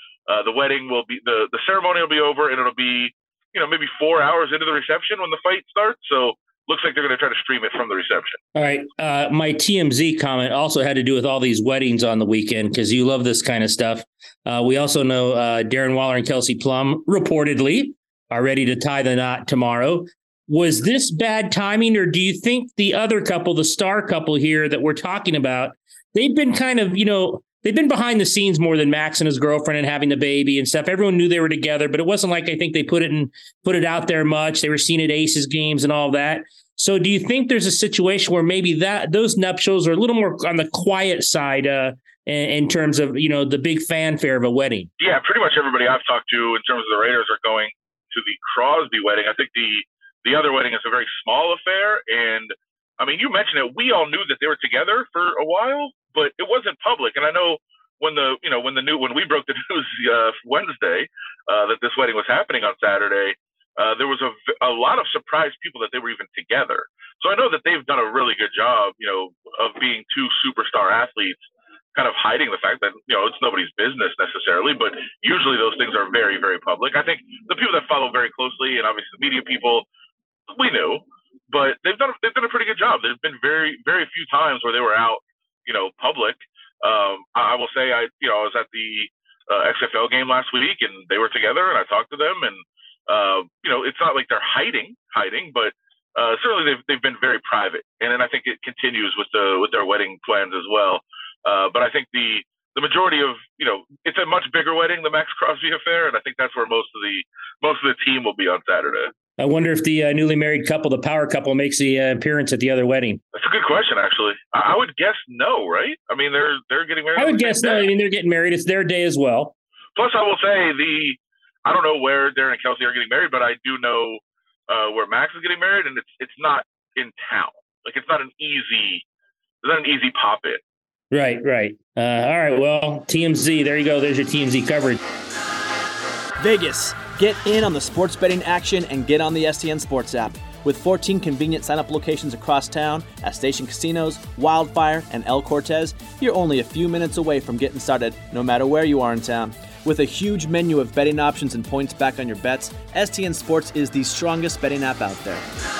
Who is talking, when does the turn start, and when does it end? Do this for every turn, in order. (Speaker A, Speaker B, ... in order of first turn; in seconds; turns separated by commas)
Speaker A: 0.3-8.4, Speaker B: 8.5-44.9, Speaker A: 45.0-71.4, Speaker A: 71.9-79.8, Speaker A: 80.5-109.1, Speaker B: 109.4-113.2, Speaker A: 113.3-117.9, Speaker B: 117.2-119.5, Speaker A: 120.0-129.0, Speaker A: 129.6-130.6, Speaker B: 131.1-135.0, Speaker C: 136.4-155.4